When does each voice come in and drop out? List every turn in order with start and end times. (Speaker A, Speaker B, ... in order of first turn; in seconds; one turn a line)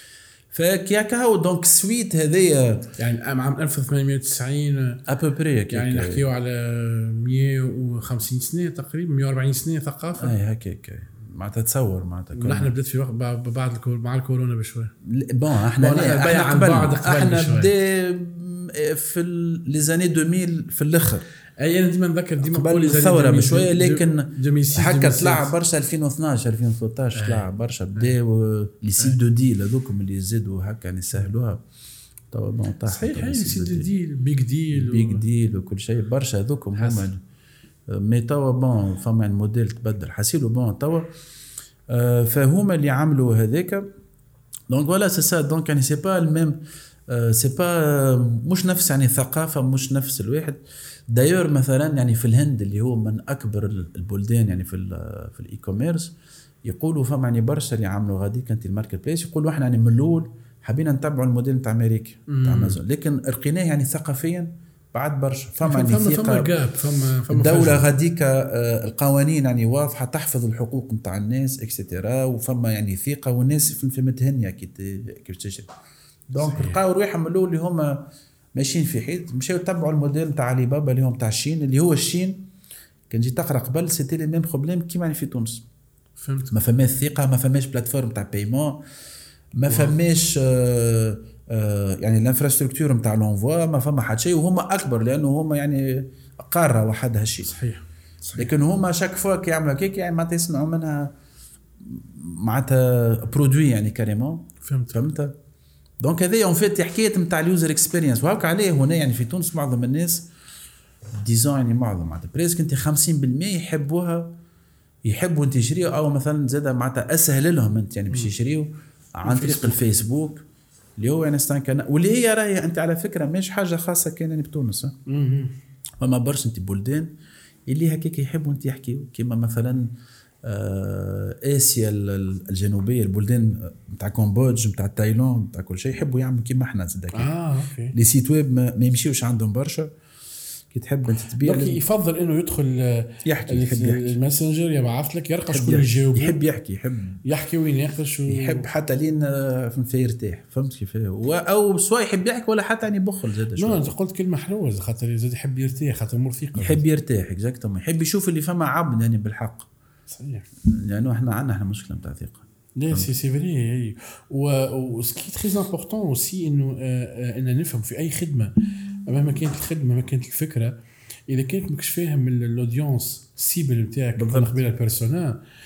Speaker A: 0.5-2.9
Speaker B: 3.0-5.0
Speaker A: 5.1-6.2
Speaker B: 5.7-10.3
Speaker A: 10.2-12.7
Speaker B: 12.3-14.9
Speaker A: 15.0-21.2
Speaker B: 15.8-17.7
Speaker B: 21.6-25.5
Speaker A: 22.4-31.6
Speaker B: 27.1-28.1
Speaker A: 32.3-33.9
Speaker B: 32.8-35.2
Speaker A: 34.7-37.2
Speaker B: 36.8-37.1
Speaker A: 37.9-41.1
Speaker A: 41.9-43.9
Speaker A: 44.7-50.6
Speaker A: 51.1-56.1
Speaker A: 56.6-66.5
Speaker B: 62.3-62.8
Speaker B: 65.6-67.9
Speaker A: 67.3-75.7
Speaker A: 76.3-78.0
Speaker B: 76.4-76.8
Speaker A: 78.5-82.4
Speaker A: 83.1-85.6
Speaker B: 86.2-86.5
Speaker A: 86.5-88.8
Speaker A: 89.5-97.5
Speaker B: 89.6-90.0
Speaker B: 97.5-98.5
Speaker A: 98.3-101.1
Speaker A: 101.8-105.3
Speaker B: 104.6-105.0
Speaker A: 106.0-110.3
Speaker A: 111.2-114.3
Speaker A: 115.0-120.4
Speaker B: 119.2-119.8
Speaker A: 121.0-125.0
Speaker B: 125.1-125.5
Speaker A: 126.0-127.1
Speaker A: 127.7-129.9
Speaker A: 130.4-137.3
Speaker B: 137.1-137.9
Speaker A: 137.9-139.9
Speaker A: 140.7-141.8
Speaker B: 141.4-146.4
Speaker A: 143.2-144.2
Speaker A: 145.5-147.2
Speaker B: 147.2-148.7
Speaker A: 148.3-153.9
Speaker B: 153.6-156.8
Speaker A: 156.6-159.7
Speaker B: 160.1-160.4
Speaker A: 160.7-163.1
Speaker B: 162.8-168.5
Speaker B: 169.1-170.8
Speaker B: 171.3-175.4
Speaker A: 174.2-174.6